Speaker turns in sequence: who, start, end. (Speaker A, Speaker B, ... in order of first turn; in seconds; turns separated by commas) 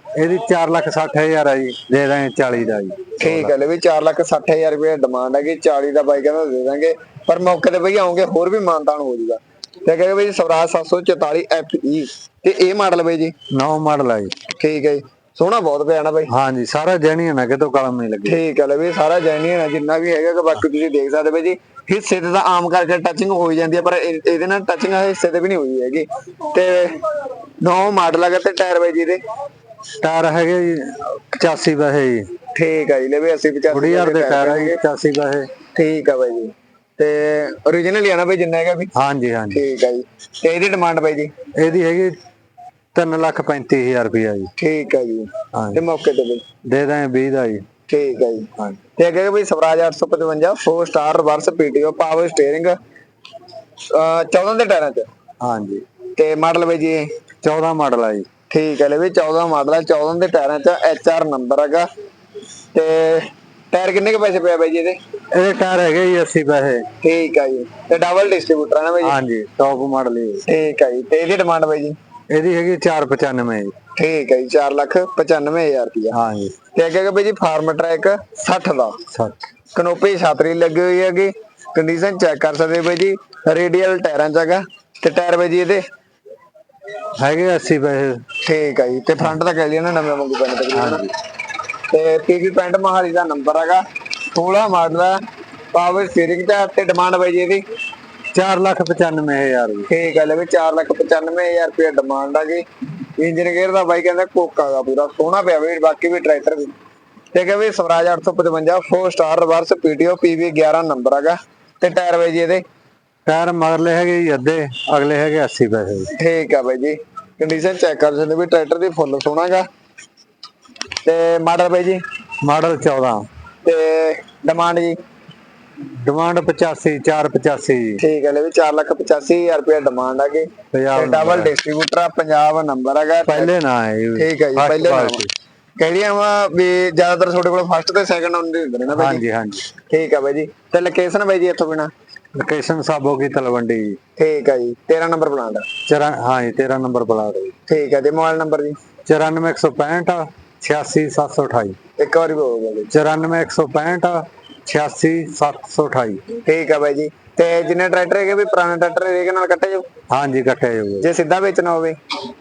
Speaker A: 0.2-3.5, Speaker B: 3.2-13.3, Speaker A: 13.5-14.3, Speaker B: 14.5-16.3, Speaker A: 16.3-18.4, Speaker B: 18.2-27.0, Speaker B: 27.6-29.2, Speaker A: 30.0-32.3, Speaker B: 32.5-34.8, Speaker A: 33.7-35.5, Speaker B: 35.7-38.9, Speaker A: 38.9-39.6, Speaker B: 39.5-41.3, Speaker A: 41.5-42.1, Speaker A: 42.9-44.5, Speaker B: 44.6-46.4, Speaker A: 45.5-45.8, Speaker A: 46.7-47.6, Speaker B: 47.9-52.7, Speaker B: 53.9-55.1, Speaker A: 55.4-55.8, Speaker B: 56.1-57.1, Speaker A: 57.4-58.3, Speaker B: 58.5-61.9, Speaker B: 62.7-65.0, Speaker A: 65.3-66.8, Speaker B: 67.0-69.2, Speaker A: 69.0-70.4, Speaker B: 70.5-72.0, Speaker A: 72.3-73.7, Speaker B: 74.0-76.2, Speaker A: 76.1-76.5, Speaker B: 76.7-79.0, Speaker A: 79.1-79.5, Speaker B: 79.7-85.8, Speaker A: 87.2-88.2, Speaker B: 88.4-91.0, Speaker A: 90.7-91.1, Speaker B: 91.9-95.2, Speaker B: 95.7-97.6, Speaker A: 98.3-99.9, Speaker B: 99.9-102.6, Speaker B: 103.2-106.7, Speaker B: 107.3-112.6, Speaker A: 113.2-116.1, Speaker B: 116.2-119.7, Speaker B: 121.0-122.0, Speaker A: 122.4-123.2, Speaker B: 123.6-125.0, Speaker A: 126.0-128.0, Speaker B: 128.0-133.5, Speaker A: 130.7-131.5, Speaker A: 133.2-135.3, Speaker B: 134.2-135.2, Speaker B: 135.8-139.2, Speaker A: 138.9-139.7, Speaker B: 139.9-141.9, Speaker A: 142.3-144.0, Speaker B: 144.2-145.7, Speaker A: 145.9-147.5, Speaker B: 147.7-148.8, Speaker A: 149.1-151.8, Speaker B: 152.0-152.9, Speaker A: 152.9-156.2, Speaker B: 156.4-159.8, Speaker A: 160.1-161.1, Speaker B: 161.0-162.0